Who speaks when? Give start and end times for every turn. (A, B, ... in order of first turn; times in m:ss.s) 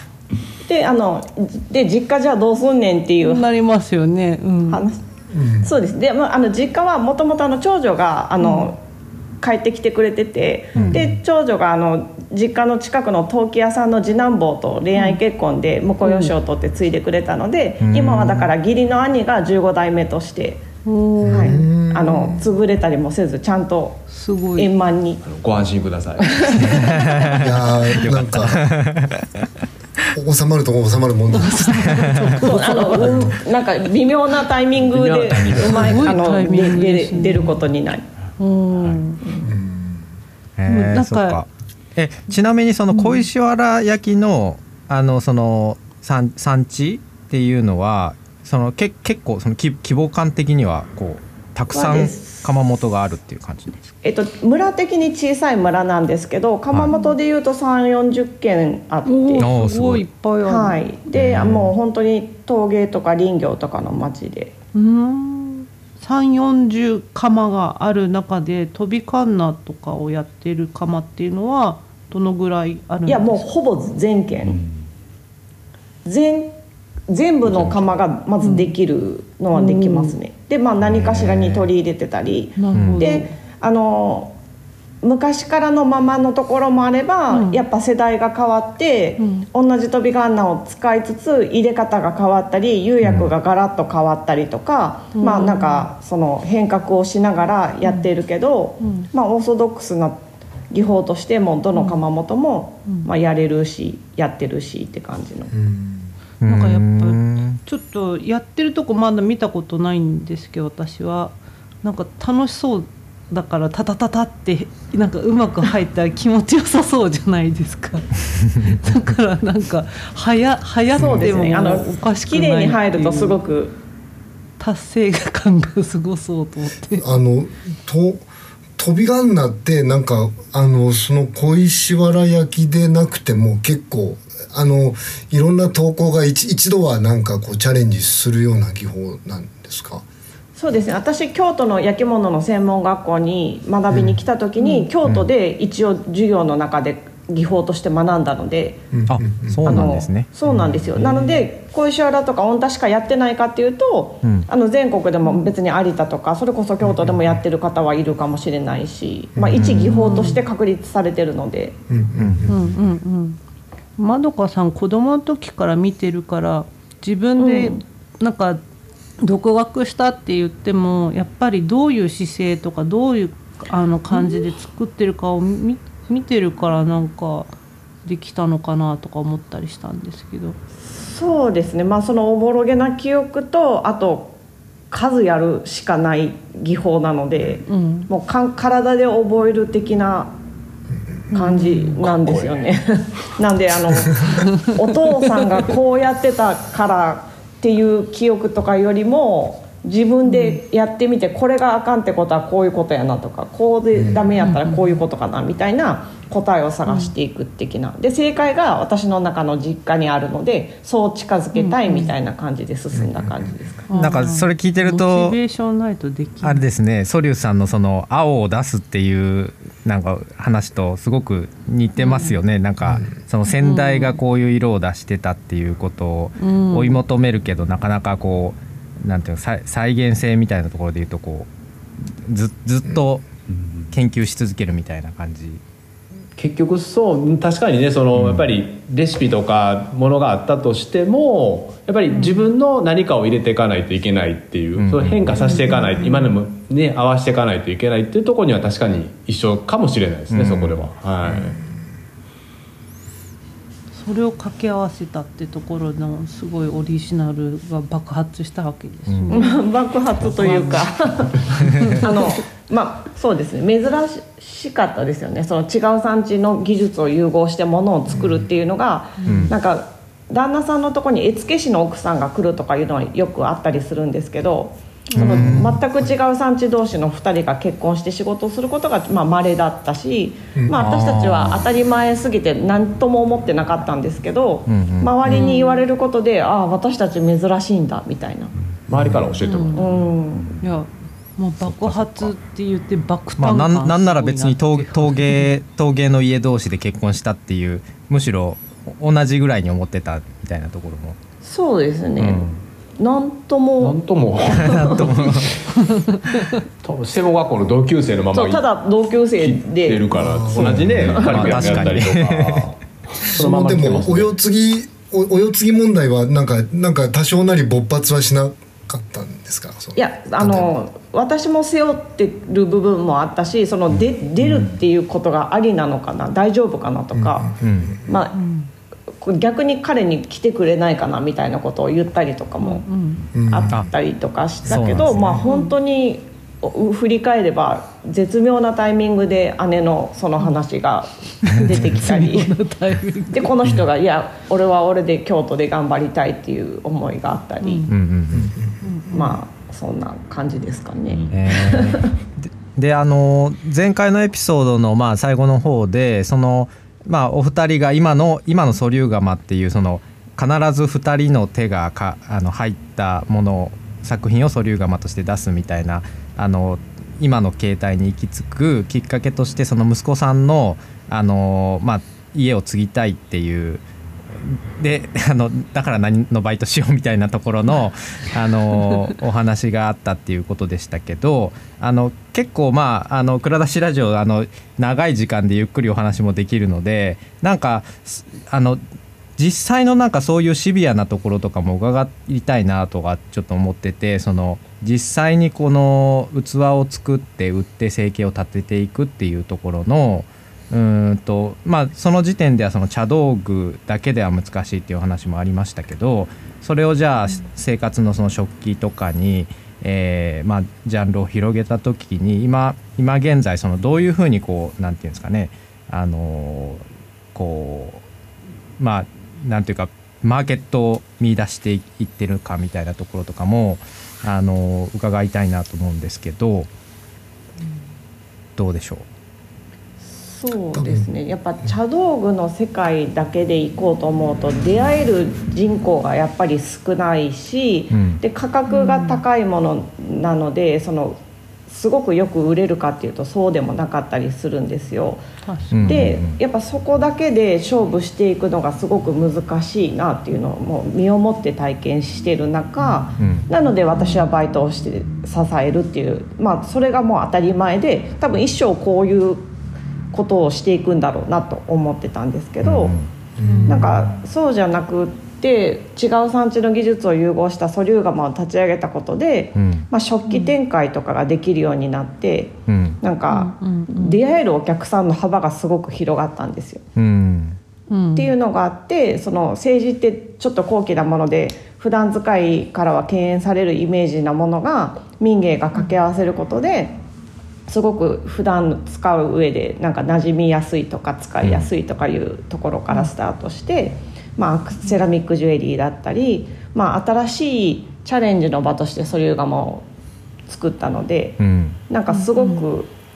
0:00.6-0:03.4 A
0:03.2-0:04.8 B
0:04.7-0:05.0 A
0:05.3-0:05.7 C
0:05.6-0:08.8 A
0:08.4-0:08.7 B
0:09.4-0:20.6 A
0:10.7-0:11.0 D
0:10.7-0:11.1 C
0:14.9-0:15.2 B
0:16.0-0:16.3 B
0:17.8-0:18.5 D
0:20.8-0:21.6 B
0:21.2-0:22.4 C
0:21.3-0:24.0 A
0:24.1-0:24.7 B
0:24.6-0:25.2 A
0:25.2-0:26.6 E
0:26.2-0:27.4 A
0:26.6-0:29.4 D
0:27.4-0:28.6 C
0:30.1-0:32.1 C
0:31.3-0:33.3 B
0:31.7-0:32.2 D
0:32.4-0:38.0 A
0:33.0-0:33.3 C
0:34.8-0:36.1 E
0:35.7-0:37.6 B
0:38.4-0:39.2 B
0:39.2-0:39.5 A
0:39.4-0:40.1 C
0:40.6-0:53.7 D
0:40.7-0:41.4 B
0:42.9-0:43.3 B
0:51.7-0:52.4 A
0:54.0-0:59.5 A
0:56.9-0:57.2 B
0:59.0-1:00.8 B
0:59.4-1:00.0 D
1:00.4-1:04.6 A
1:01.1-1:01.7 D
1:04.7-1:13.5 B
1:13.1-1:14.6 A
1:16.0-1:16.6 A
1:17.1-1:24.3 A
1:17.6-1:17.9 E
1:18.4-1:18.7 B
1:19.5-1:20.1 B
1:20.8-1:21.7 D
1:22.6-1:23.3 B
1:22.7-1:23.1 D
1:25.0-1:45.5 A
1:27.3-1:27.6 B
1:29.2-1:29.4 B
1:33.0-1:33.3 D
1:35.1-1:35.9 B
1:37.8-1:38.1 B
1:38.8-1:39.1 B
1:41.7-1:42.0 B
1:45.5-1:46.1 C
1:46.4-1:47.6 D
1:46.4-2:03.4 B
2:01.0-2:01.4 C
2:01.0-2:03.7 A
2:04.6-2:07.0 B
2:07.0-2:08.2 C
2:08.8-2:20.0 C
2:20.5-2:28.9 A
2:23.9-2:24.2 C
2:24.6-2:24.9 B
2:25.0-2:25.3 D
2:28.9-2:29.9 C
2:29.1-2:30.3 D
2:29.6-2:41.8 A
2:30.4-2:31.0 C
2:35.2-2:35.5 B
2:36.8-2:37.4 C
2:39.3-2:39.7 C
2:39.5-2:40.2 D
2:40.0-2:40.4 B
2:41.9-2:42.8 C
2:42.2-2:42.5 D
2:42.5-2:43.4 B
2:44.0-2:48.6 B
2:47.4-2:47.8 A
2:49.2-2:57.5 B
2:54.1-2:54.5 A
2:58.0-3:00.6 B
3:00.9-3:04.4 A
3:04.9-3:10.3 A
3:07.7-3:08.1 B
3:11.3-3:12.0 B
3:11.3-3:33.9 A
3:12.0-3:12.7 E
3:14.0-3:14.4 C
3:20.2-3:20.6 B
3:23.9-3:24.3 C
3:24.4-3:25.0 B
3:26.8-3:27.1 B
3:31.5-3:32.1 B
3:32.9-3:33.8 C
3:33.9-3:36.6 B
3:33.9-3:35.4 D
3:36.4-3:51.5 D
3:42.0-3:42.4 B
3:42.8-3:43.1 C
3:43.4-3:44.2 B
3:46.4-3:47.0 B
3:52.2-3:53.2 D
3:53.5-3:53.9 E
3:53.9-3:55.6 D
3:56.4-4:11.6 E
3:58.1-3:58.4 D
4:02.1-4:02.5 B
4:04.8-4:05.5 D
4:05.4-4:06.3 B
4:10.3-4:10.8 D
4:11.3-4:11.6 C
4:13.9-4:19.6 B
4:19.1-4:19.4 D
4:19.3-4:48.5 A
4:20.2-4:20.9 B
4:21.4-4:22.3 B
4:28.1-4:28.4 C
4:29.2-4:29.6 B
4:29.2-4:29.6 D
4:35.1-4:35.6 B
4:35.2-4:35.8 D
4:35.3-4:36.1 C
4:40.7-4:41.6 D
4:44.7-4:45.2 D
4:45.2-4:45.8 B
4:48.8-4:50.6 E
4:48.9-4:49.4 C
4:49.4-4:49.9 B
4:49.7-4:50.5 A
4:50.6-4:55.5 B
4:51.6-4:52.3 D
4:53.4-5:01.2 D
5:01.4-5:02.5 A
5:02.2-5:02.6 D
5:03.0-5:05.1 A
5:03.8-5:05.7 E
5:04.6-5:05.6 D
5:06.0-5:06.5 B
5:06.8-5:08.6 E
5:08.3-5:10.2 A
5:09.4-5:14.3 E
5:10.1-5:11.1 C
5:10.6-5:12.6 D
5:11.1-5:11.9 A
5:13.3-5:20.7 C
5:19.9-5:27.5 A
5:27.1-5:28.1 C
5:27.6-5:28.0 D
5:28.0-5:28.3 A
5:28.3-5:28.7 B
5:29.2-5:32.8 A
5:32.6-5:33.2 B
5:33.3-5:33.9 C
5:33.5-5:42.5 A
5:34.7-5:35.2 D
5:34.7-5:35.4 C
5:35.4-5:35.7 B
5:41.4-5:43.5 B
5:43.3-5:47.9 A
5:47.6-5:47.9 B
5:47.9-5:48.5 D
5:48.3-5:48.9 C
5:48.8-5:49.4 B
5:49.1-5:52.1 A
5:51.3-6:28.8 D
6:29.4-6:58.0 D
6:58.8-7:06.7 D
7:08.6-7:09.1 D
7:10.0-7:25.2 A
7:10.7-7:11.1 C
7:17.9-7:18.2 D
7:18.7-7:19.2 B
7:25.4-7:26.1 B
7:25.7-7:26.4 D
7:25.8-7:39.4 A
7:33.2-7:33.5 D
7:40.1-7:42.9 A
7:42.6-7:43.1 D
7:43.4-7:44.2 C
7:43.4-7:43.9 B
7:43.6-7:56.8 A
7:49.5-7:49.8 D
7:50.3-7:50.5 B
7:52.7-7:53.0 D
7:53.3-7:54.2 B
7:57.0-7:57.6 D
7:57.9-7:58.3 B
7:58.2-8:07.0 A
8:07.7-8:19.9 A
8:11.4-8:11.7 D
8:20.5-8:22.9 A
8:21.4-8:21.8 D
8:22.1-8:22.6 B